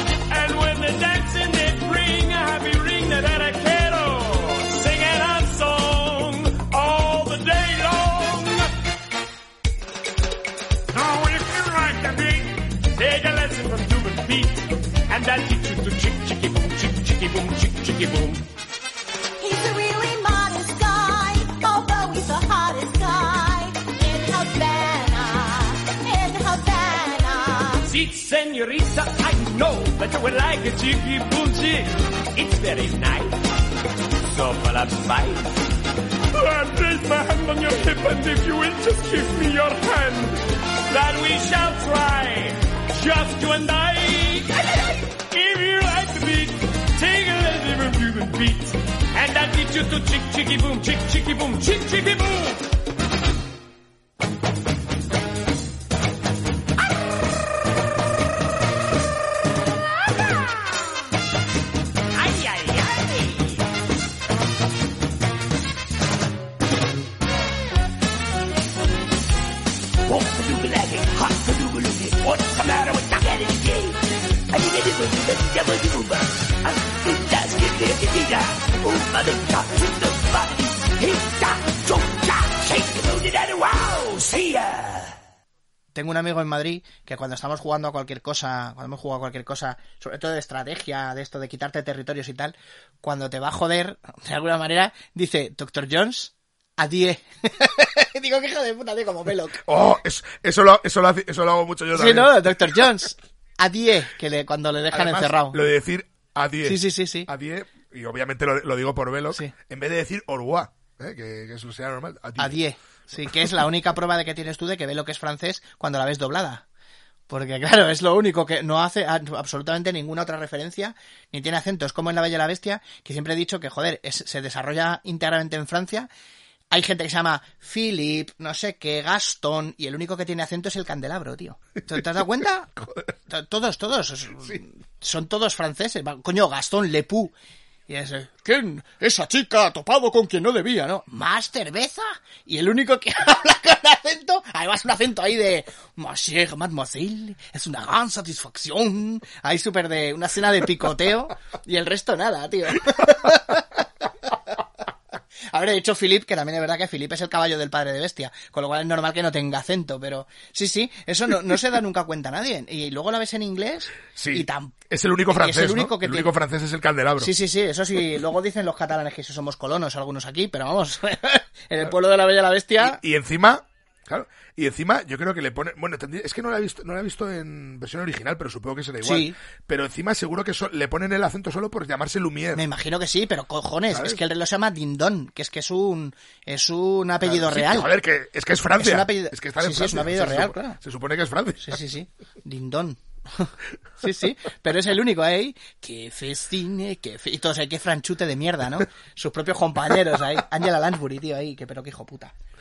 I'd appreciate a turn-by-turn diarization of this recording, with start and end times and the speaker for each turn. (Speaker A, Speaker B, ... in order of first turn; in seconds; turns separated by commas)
Speaker A: 0.3-8.7, Speaker A: 10.9-18.4, Speaker B: 19.4-27.9, Speaker A: 27.9-33.4, Speaker A: 34.2-35.6, Speaker A: 36.3-52.6, Speaker A: 62.1-63.6, Speaker A: 70.7-73.9, Speaker C: 86.0-99.6, Speaker D: 99.7-102.8, Speaker C: 101.9-105.6, Speaker D: 104.9-112.6, Speaker C: 106.6-107.3, Speaker C: 112.4-116.6, Speaker C: 117.3-126.1, Speaker C: 126.7-132.7, Speaker C: 133.3-137.3, Speaker C: 137.9-153.8, Speaker C: 155.5-164.8, Speaker D: 164.1-167.3, Speaker C: 165.3-166.3, Speaker C: 167.2-173.0, Speaker D: 172.8-182.6, Speaker C: 179.0-179.4, Speaker C: 182.5-187.9, Speaker D: 183.9-184.2, Speaker D: 187.2-191.8, Speaker C: 188.8-190.8, Speaker C: 191.6-202.3